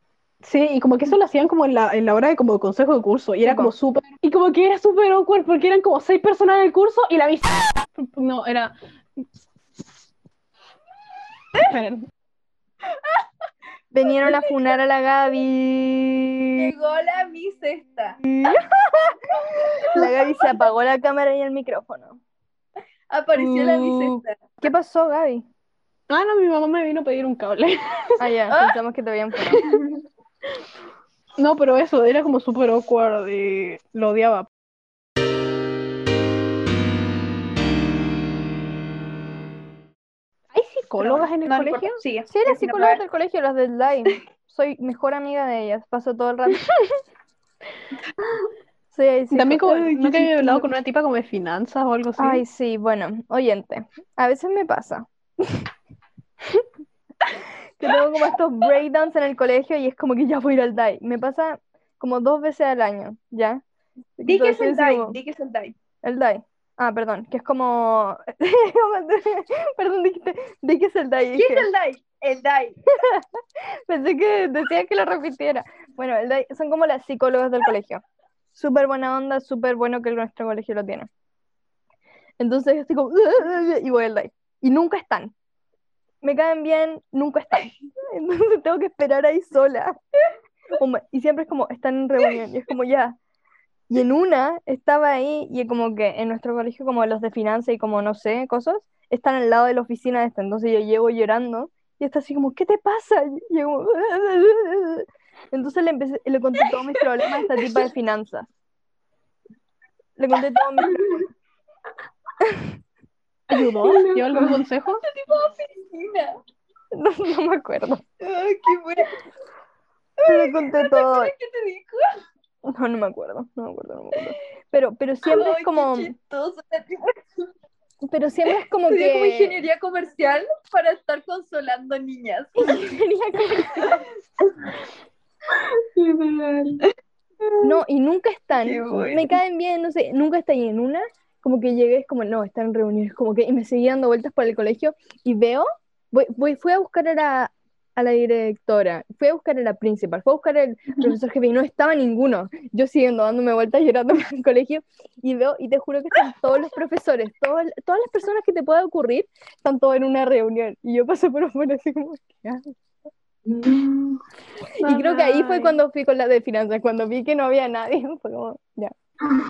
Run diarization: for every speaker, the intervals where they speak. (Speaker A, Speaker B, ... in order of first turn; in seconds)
Speaker A: 0.4-8.7, 11.6-12.1, 26.1-28.1, 31.4-34.5, 40.5-42.0, 49.3-52.4, 113.5-115.0
Speaker B: 3.4-3.7, 13.9-16.7, 18.2-19.2, 19.9-22.2, 23.4-25.4, 28.2-29.6, 42.3-46.6, 48.9-50.6, 52.2-55.7, 57.8-63.6, 64.2-65.2, 66.0-71.7, 73.0-73.2, 73.9-78.0, 78.5-81.1, 82.4-85.3, 86.2-90.0, 90.8-93.2, 93.9-108.5, 110.2-111.2, 112.4-112.7, 116.9-118.0, 120.3-121.3, 122.7-126.1, 128.0-129.6, 132.6-134.0, 137.6-162.6, 164.8-168.9
Speaker C: 14.2-14.5, 16.6-18.2, 23.1-24.5, 29.5-29.8, 41.0-43.0, 50.2-50.5, 64.2-65.7, 71.3-72.8, 115.0-116.4, 118.2-119.1, 120.2-122.0, 125.3-127.2, 128.8-132.9, 133.8-134.6, 138.6-139.3, 164.8-165.8
Speaker D: 113.8-114.6, 135.5-136.8, 163.4-164.2